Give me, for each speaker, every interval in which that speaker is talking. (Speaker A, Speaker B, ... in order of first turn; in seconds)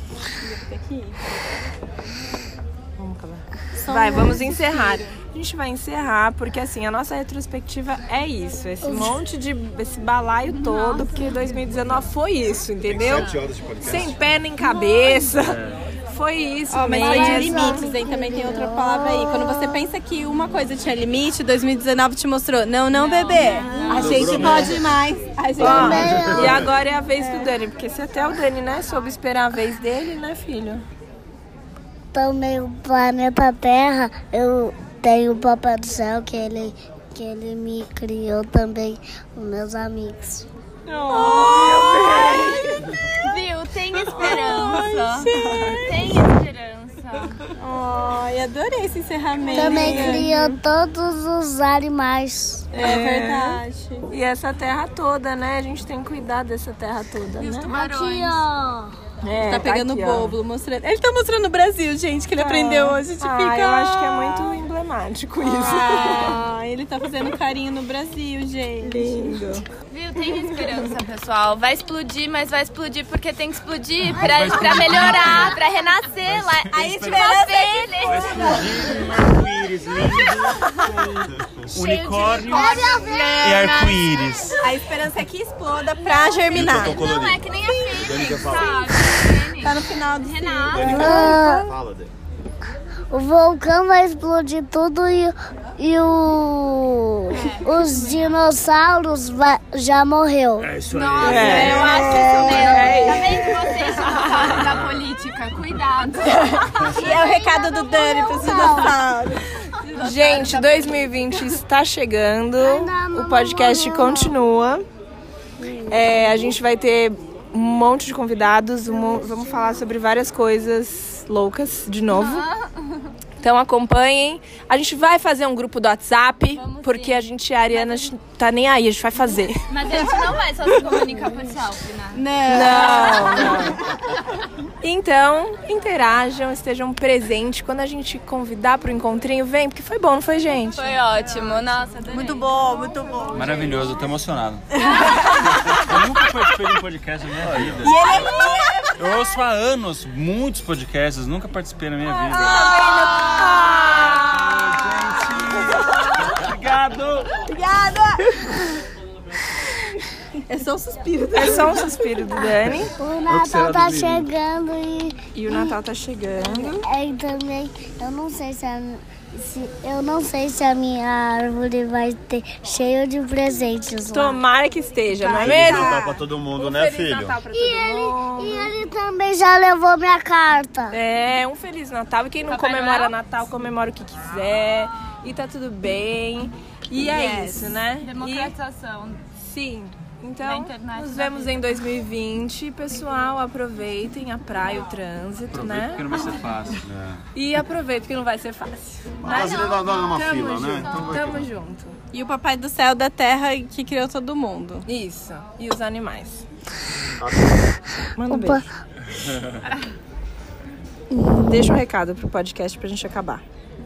Speaker A: 0.4-1.7, 3.8-5.2, 16.7-26.3, 27.2-27.5, 41.1-42.6, 44.1-46.3, 47.6-50.5, 52.7-54.1, 59.4-64.6, 65.5-69.4, 76.7-78.7, 84.6-91.4, 101.3-103.2, 104.0-104.4, 106.8-111.2, 132.1-133.8, 141.1-142.2, 142.8-143.3, 147.9-148.5, 152.3-153.7, 157.5-158.2, 160.5-162.0, 175.2-176.1, 202.1-204.9
Speaker B: 3.0-17.9, 25.6-30.8, 40.9-42.9, 44.2-46.0, 49.5-50.3, 52.8-57.7, 59.2-60.4, 62.4-66.4, 68.8-69.7, 101.2-104.3, 110.0-114.8, 115.9-122.5, 123.4-130.1, 132.5-133.8, 134.8-140.9, 144.8-145.4, 147.8-148.9, 152.2-154.6, 155.5-156.2, 161.3-162.9, 165.3-166.8, 174.1-178.8, 180.9-188.5, 189.4-196.3, 197.3-202.0, 204.9-206.5, 208.2-208.7, 211.4-213.4
Speaker C: 8.8-9.2, 17.0-19.8, 25.6-26.6, 32.1-40.5, 49.5-52.7, 57.7-58.9, 82.4-83.9, 90.9-91.7, 93.1-100.7, 101.9-103.2, 107.2-109.1, 112.6-114.4, 115.6-116.3, 119.3-119.6, 162.9-165.8, 166.8-174.4, 177.5-181.0, 208.3-208.7, 211.1-211.8
Speaker D: 10.5-11.3, 22.9-24.6, 42.0-47.4, 57.4-58.4, 69.9-78.7, 81.8-84.8, 86.1-91.3, 97.3-98.4, 100.9-107.7, 108.2-108.7, 122.1-123.0, 126.5-128.1, 129.7-133.5, 140.7-142.5, 182.5-183.1, 187.1-189.2, 190.4-191.7, 199.3-200.0
Speaker E: 11.8-12.1, 15.4-15.8, 23.9-24.9, 25.9-26.6, 74.1-75.6, 76.2-77.3, 78.0-84.6, 100.6-101.9, 104.4-104.9, 143.3-148.3, 149.0-152.9, 153.6-157.5, 163.3-164.3, 195.5-196.9
Speaker F: 12.8-14.2, 23.9-24.9, 81.3-81.8, 86.5-88.9, 90.7-92.1, 147.4-148.0, 175.3-177.4, 196.8-197.2, 199.2-201.5, 207.2-207.6
Speaker G: 23.5-23.9, 142.1-143.9, 148.1-148.8